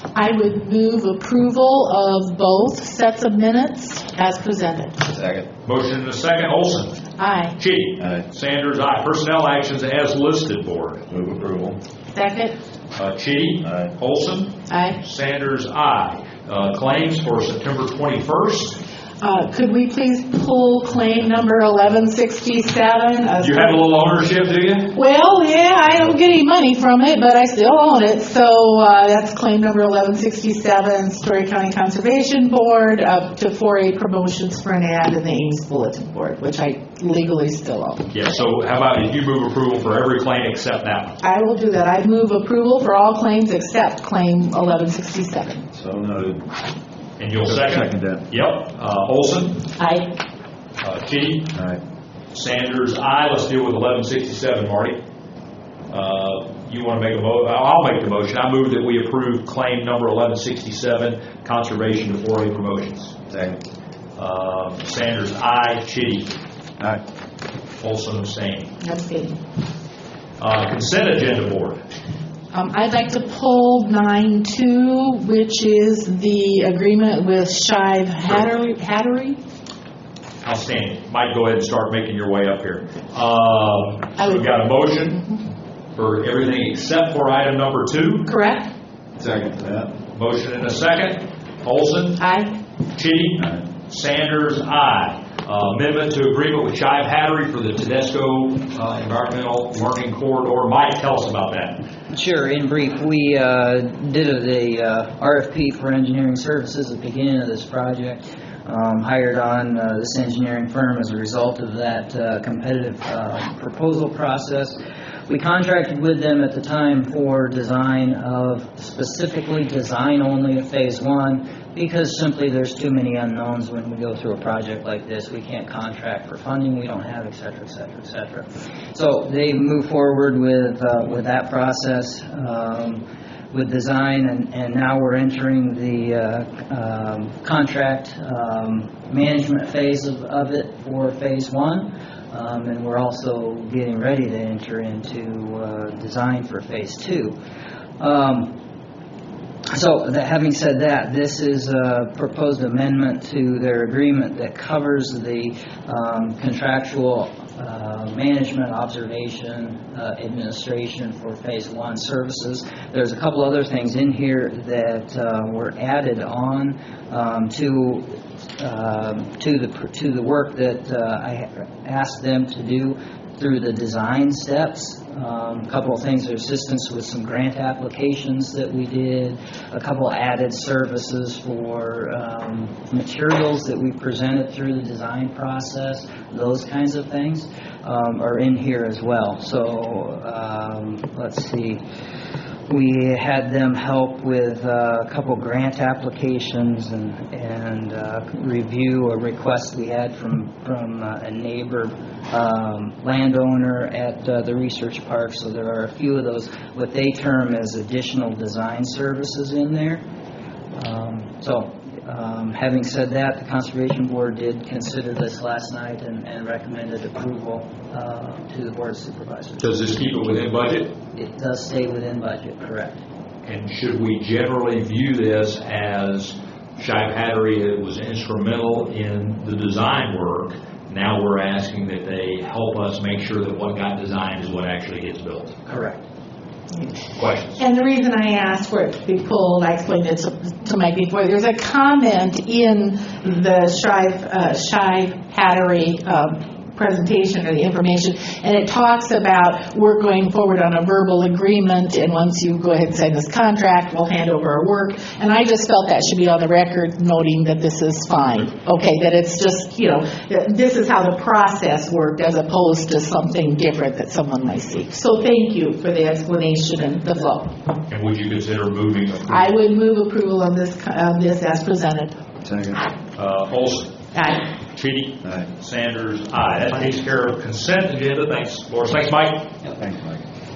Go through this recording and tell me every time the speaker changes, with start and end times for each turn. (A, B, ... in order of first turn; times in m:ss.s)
0:00.1-0:05.0 A
0:05.0-0:05.5 B
0:05.6-0:07.0 C
0:07.2-0:07.5 A
0:07.6-0:11.1 C
0:11.1-0:11.8 B
0:12.1-0:12.6 A
0:12.9-0:18.8 C
0:14.7-0:15.0 A
0:19.2-0:23.8 A
0:23.4-0:25.0 C
0:24.9-0:38.1 A
0:38.1-0:41.2 C
0:41.2-0:45.6 A
0:45.7-0:46.4 B
0:47.2-0:49.6 C
0:47.4-0:48.2 B
0:49.8-0:50.2 A
0:50.8-0:51.5 C
0:52.3-0:55.0 C
0:55.9-1:03.2 C
1:03.3-1:03.6 B
1:04.2-1:06.4 C
1:07.8-1:08.7 C
1:08.8-1:09.4 A
1:10.4-1:11.8 C
1:12.5-1:19.4 A
1:20.4-1:25.3 C
1:25.9-1:28.3 C
1:28.2-1:28.7 A
1:29.2-1:29.9 B
1:30.1-1:32.2 C
1:32.2-1:32.5 A
1:32.9-1:41.8 C
1:42.1-1:54.8 D
1:55.3-2:27.3 D
2:28.0-2:28.5 D
2:29.7-3:11.8 D
3:12.7-3:30.0 D
3:30.7-3:39.7 D
3:39.6-3:40.9 C
3:41.1-3:43.0 D
3:43.4-3:55.6 C
3:55.7-3:56.0 D
3:57.1-3:57.6 C
3:57.6-4:27.5 A
4:27.9-4:29.5 C
4:29.3-4:32.2 A
4:32.4-4:32.8 B
4:33.1-4:33.9 C
4:34.1-4:34.4 A
4:34.7-4:39.7 C
4:39.8-4:40.2 B